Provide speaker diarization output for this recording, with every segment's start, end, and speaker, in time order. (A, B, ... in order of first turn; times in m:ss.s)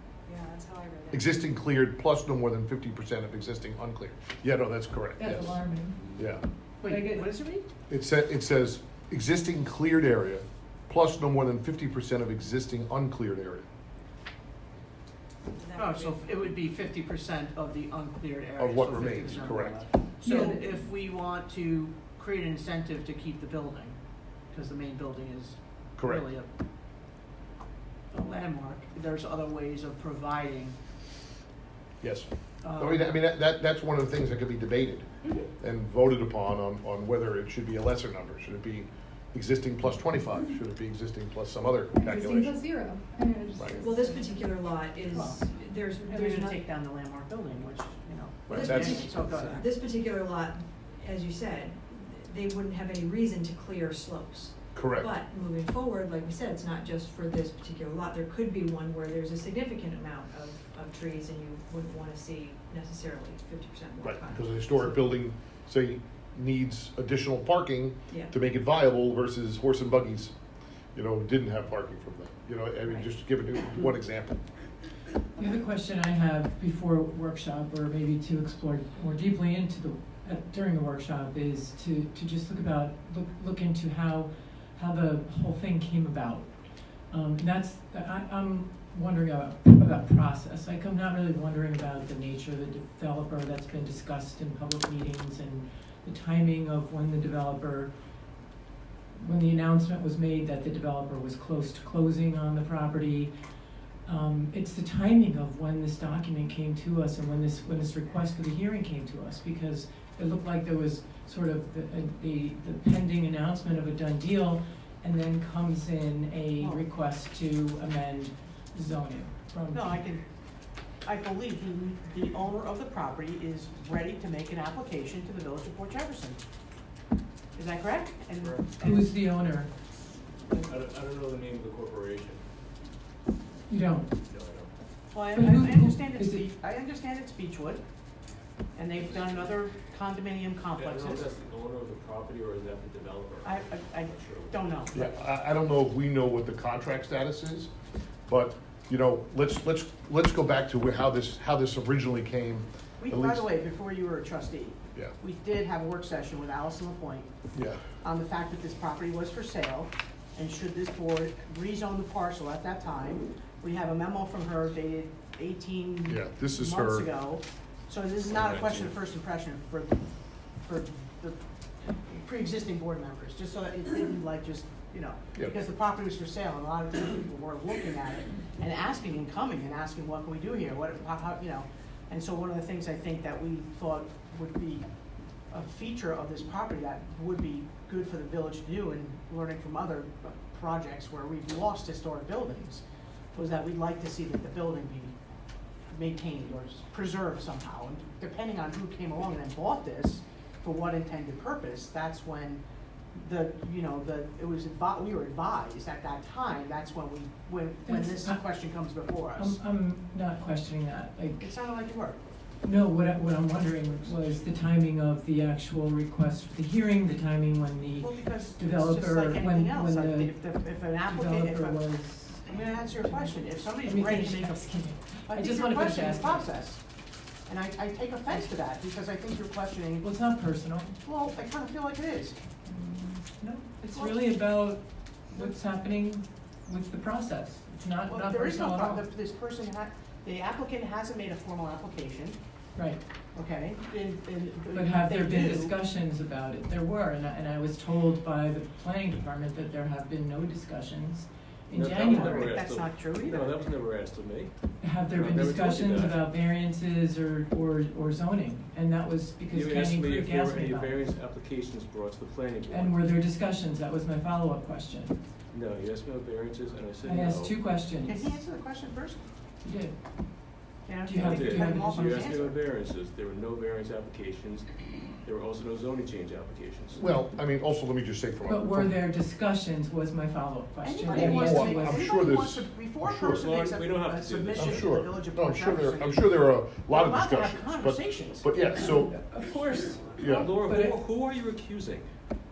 0:00.3-0:01.4 A
0:01.1-0:05.6 B
0:05.2-0:06.0 C
0:06.2-0:06.4 B
0:06.8-0:07.7 D
0:06.8-0:07.3 C
0:07.9-0:13.6 B
0:15.4-0:16.6 A
0:15.8-0:24.0 D
0:18.6-0:19.8 B
0:20.2-0:20.8 C
0:24.5-0:26.5 D
0:26.0-0:26.2 B
0:28.1-0:30.8 D
0:32.0-0:42.6 B
0:32.6-0:33.1 D
0:41.9-0:44.5 C
0:43.8-0:46.6 A
0:45.1-0:45.4 D
0:46.1-0:49.7 D
0:48.5-0:49.2 B
0:48.5-1:05.1 A
0:54.7-0:55.1 B
1:04.0-1:10.3 B
1:11.0-1:14.4 B
1:15.4-1:26.5 E
1:27.1-1:37.9 E
1:39.2-1:43.3 E
1:44.1-1:59.9 E
1:59.7-2:00.2 D
2:01.0-2:06.4 D
2:07.6-2:09.1 D
2:08.4-2:08.8 F
2:08.8-2:09.7 E
2:10.6-2:12.4 F
2:13.7-2:14.2 E
2:14.3-2:14.7 F
2:15.1-2:17.8 D
2:15.3-2:16.5 E
2:18.8-2:21.3 D
2:20.8-2:24.6 F
2:23.4-2:25.1 D
2:24.9-2:27.7 B
2:28.3-2:33.4 B
2:33.0-2:37.3 D
2:37.5-2:37.8 B
2:38.0-2:50.0 D
2:46.1-2:47.1 B
2:48.3-2:48.8 F
2:50.6-2:51.4 D
2:52.1-3:04.8 D
3:05.5-3:12.8 D
3:13.3-3:15.2 D
3:15.9-3:22.6 D
3:23.2-3:29.6 D
3:27.9-3:28.4 E
3:29.3-3:31.5 E
3:31.4-3:32.2 D
3:32.6-3:40.4 E
3:38.0-3:41.8 D
3:41.0-3:46.5 E
3:42.4-3:44.7 D
3:45.3-3:46.8 D
3:47.5-3:50.1 D
3:50.0-3:51.0 E
3:51.0-3:52.4 D
3:52.6-3:59.1 E
3:58.1-4:02.4 D
4:03.4-4:05.7 D
4:04.7-4:12.3 E
4:11.7-4:14.5 F
4:12.0-4:13.6 D
4:14.8-4:21.0 E
4:15.1-4:16.2 F
4:19.5-4:23.1 F
4:22.7-4:25.2 E
4:25.5-4:27.6 F
4:27.0-4:28.4 E
4:28.0-4:29.2 D
4:29.6-4:30.0 E
4:30.9-4:32.6 D
4:31.1-4:32.2 E
4:31.1-4:34.7 F
4:35.2-4:37.0 F
4:37.0-4:38.9 B
4:38.5-4:42.0 E
4:40.8-4:46.3 D
4:41.1-4:43.4 B
4:43.3-4:45.0 F
4:44.6-4:49.2 B
4:46.9-4:48.5 D
4:48.8-4:51.0 E
4:50.1-4:50.6 B
4:50.2-4:52.1 F